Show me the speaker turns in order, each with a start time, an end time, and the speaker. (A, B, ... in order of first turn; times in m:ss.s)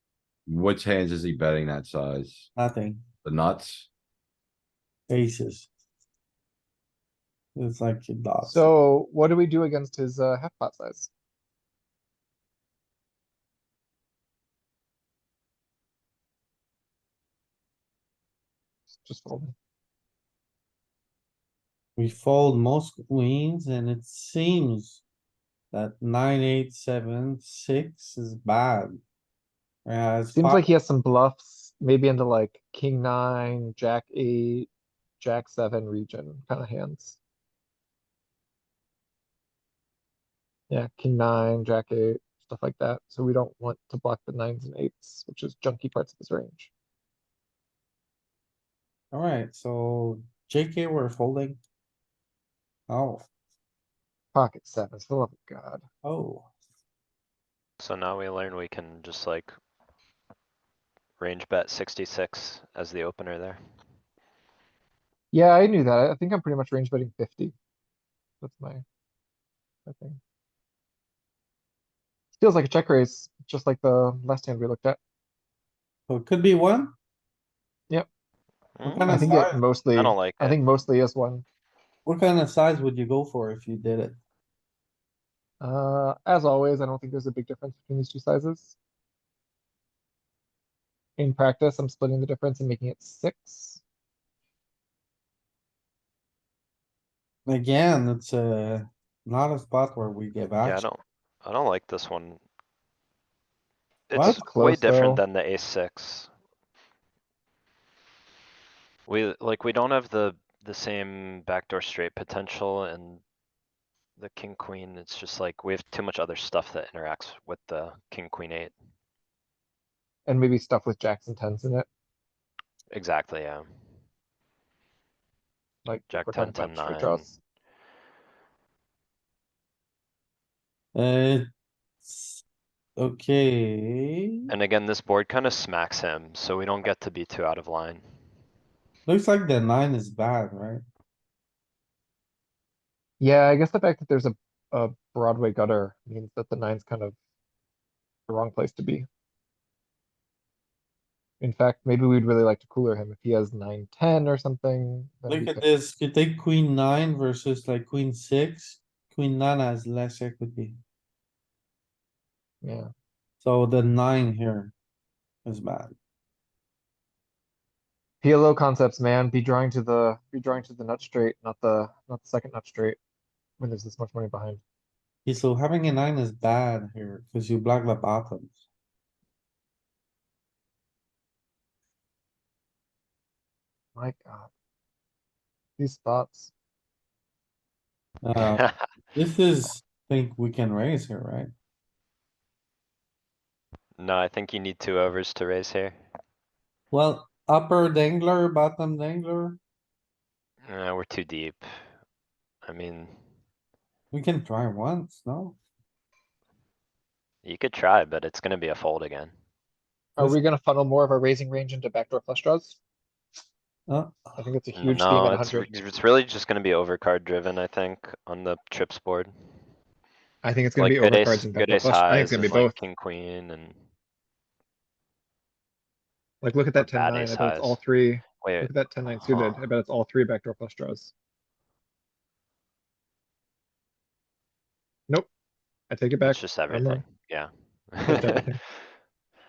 0:00.5-0:02.5 A
0:02.6-0:03.0 B
0:03.2-0:03.9 A
0:05.1-0:05.7 B
0:07.6-0:08.7 B
0:08.4-0:11.1 C
0:18.9-0:19.5 C
0:22.0-0:25.0 B
0:25.7-0:29.0 B
0:29.8-0:30.7 B
0:30.4-0:34.7 C
0:35.2-0:37.2 C
0:40.7-0:46.7 C
0:49.1-0:51.6 B
0:52.9-0:53.3 B
0:54.3-0:55.8 C
0:56.0-0:56.5 B
0:57.8-0:59.5 D
1:01.2-1:03.6 D
1:05.3-1:07.5 C
1:08.4-1:08.8 C
1:09.8-1:10.2 C
1:12.4-1:15.0 C
1:16.1-1:16.9 B
1:18.8-1:19.3 D
1:18.8-1:19.6 B
1:19.0-1:21.4 C
1:19.9-1:20.6 D
1:22.0-1:24.2 B
1:25.6-1:28.8 C
1:31.2-1:33.8 C
1:37.5-1:40.8 B
1:40.6-1:42.4 D
1:44.1-1:46.3 D
1:44.1-1:44.4 B
1:44.2-1:45.2 C
1:49.1-1:53.2 D
1:54.2-1:58.7 D
2:00.3-2:01.9 C
2:02.9-2:03.7 D
2:05.8-2:07.4 C
2:06.1-2:07.3 D
2:10.9-2:11.5 B
2:12.0-2:12.4 B
2:13.0-2:14.5 B
2:14.5-2:18.0 D
2:19.0-2:20.8 B
2:23.2-2:27.1 C
2:28.3-2:29.0 C
2:31.4-2:35.6 C
2:35.3-2:40.8 B
2:42.6-2:42.9 C
2:43.4-2:44.7 B
2:45.4-2:45.9 B
2:48.2-2:53.0 C
2:53.6-2:54.6 C
2:55.2-2:58.6 B
3:04.0-3:04.5 C
3:05.8-3:06.5 C
3:08.2-3:11.5 B
3:08.6-3:08.9 D
3:14.0-3:16.0 D
3:16.9-3:19.6 B
3:20.6-3:21.7 D
3:22.6-3:23.1 D
3:24.1-3:25.6 B
3:27.4-3:29.3 D
3:30.2-3:32.8 C
3:33.9-3:34.4 B
3:34.4-3:35.7 C
3:34.7-3:39.3 D
3:40.4-3:42.8 C
3:40.8-3:43.8 D
3:46.4-3:51.1 C
3:46.8-3:47.8 D
3:48.4-3:49.6 D
3:55.9-3:57.0 C
3:56.2-3:58.8 D
3:58.0-3:58.6 C